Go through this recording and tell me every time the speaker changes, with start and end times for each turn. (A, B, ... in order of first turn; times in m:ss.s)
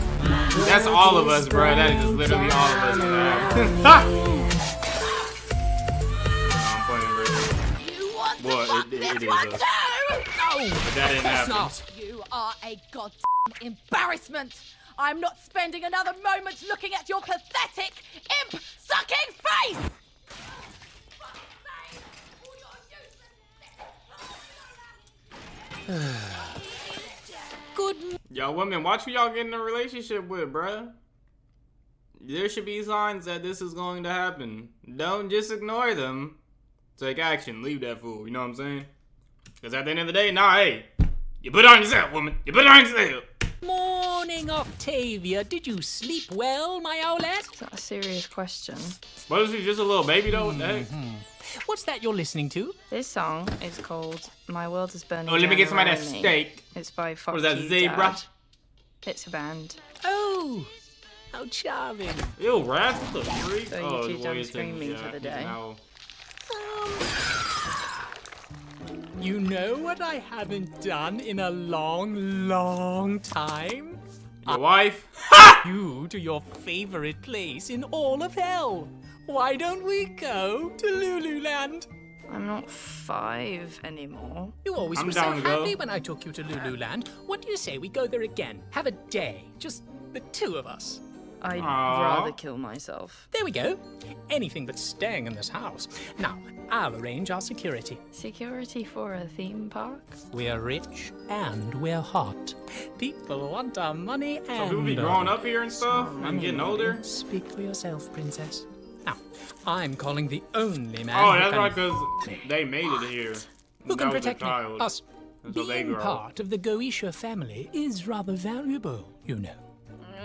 0:00.4-0:04.0 A
0:00.5-0:04.1 B
0:06.5-0:07.6 B
0:07.8-0:10.4 C
0:08.4-0:09.6 B
0:10.3-0:11.8 A
0:10.8-0:11.8 B
0:11.8-0:20.0 C
0:21.4-0:23.5 C
0:25.9-0:26.5 A
0:27.7-0:28.2 A
0:28.3-0:30.9 B
0:32.2-0:36.4 B
0:37.0-0:38.9 B
0:39.6-0:40.9 B
0:41.4-0:43.2 B
0:43.6-0:47.5 A
0:47.6-0:49.0 D
0:49.3-0:50.9 B
0:50.3-0:52.8 A
0:52.9-0:58.2 D
0:55.2-0:56.6 B
0:57.3-0:58.2 B
0:59.0-0:59.8 D
1:00.0-1:00.7 A
1:01.3-1:02.3 A
1:02.4-1:05.8 B
1:03.7-1:05.6 D
1:06.5-1:07.1 A
1:09.2-1:14.6 A
1:14.4-1:15.6 B
1:15.6-1:21.9 A
1:22.3-1:24.5 D
1:24.6-1:31.0 A
1:24.9-1:25.8 B
1:31.4-1:33.3 D
1:31.5-1:32.3 B
1:33.3-1:38.0 A
1:38.1-1:40.2 D
1:40.3-1:45.4 A
1:44.5-1:47.0 B
1:45.8-1:46.8 D
1:46.2-1:52.4 A
1:51.1-1:54.9 B
1:53.9-1:59.6 A
1:55.4-1:56.2 B